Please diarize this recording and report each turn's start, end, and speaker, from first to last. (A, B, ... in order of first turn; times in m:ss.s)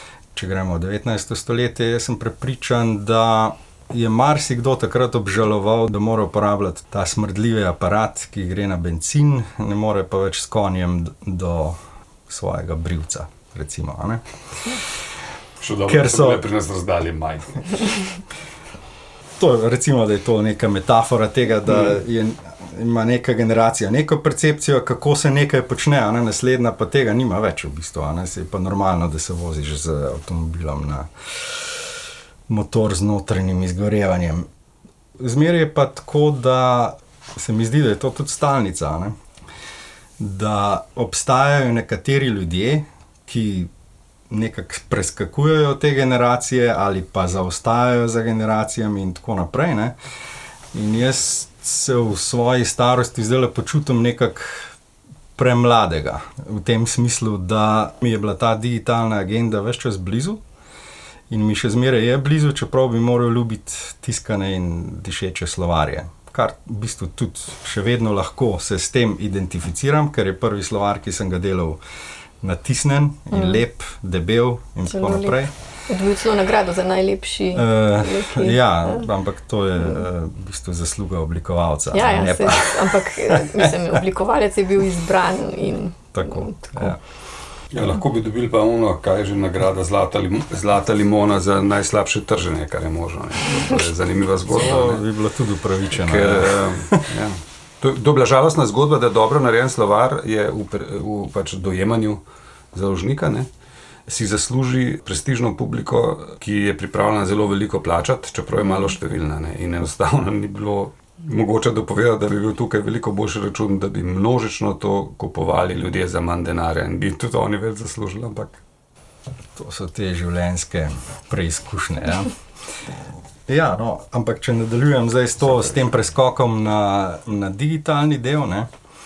0:00.3-0:14.2 A
0:15.6-0:18.0 B
0:15.9-0:16.4 A
0:19.4-0:32.0 A
0:32.5-0:34.5 A
0:35.2-0:39.2 A
0:40.2-0:43.7 A
0:44.3-0:50.0 A
0:50.7-0:54.8 A
0:55.4-1:00.4 A
1:01.3-1:11.8 A
1:12.4-1:15.5 A
1:13.3-1:13.6 C
1:14.9-1:19.1 C
1:17.5-1:23.3 A
1:21.9-1:27.0 C
1:26.1-1:27.0 A
1:27.7-1:35.0 B
1:34.5-1:37.1 A
1:36.0-1:42.2 B
1:42.7-1:43.5 B
1:44.1-1:58.6 B
1:59.6-2:02.3 A
2:03.5-2:08.7 A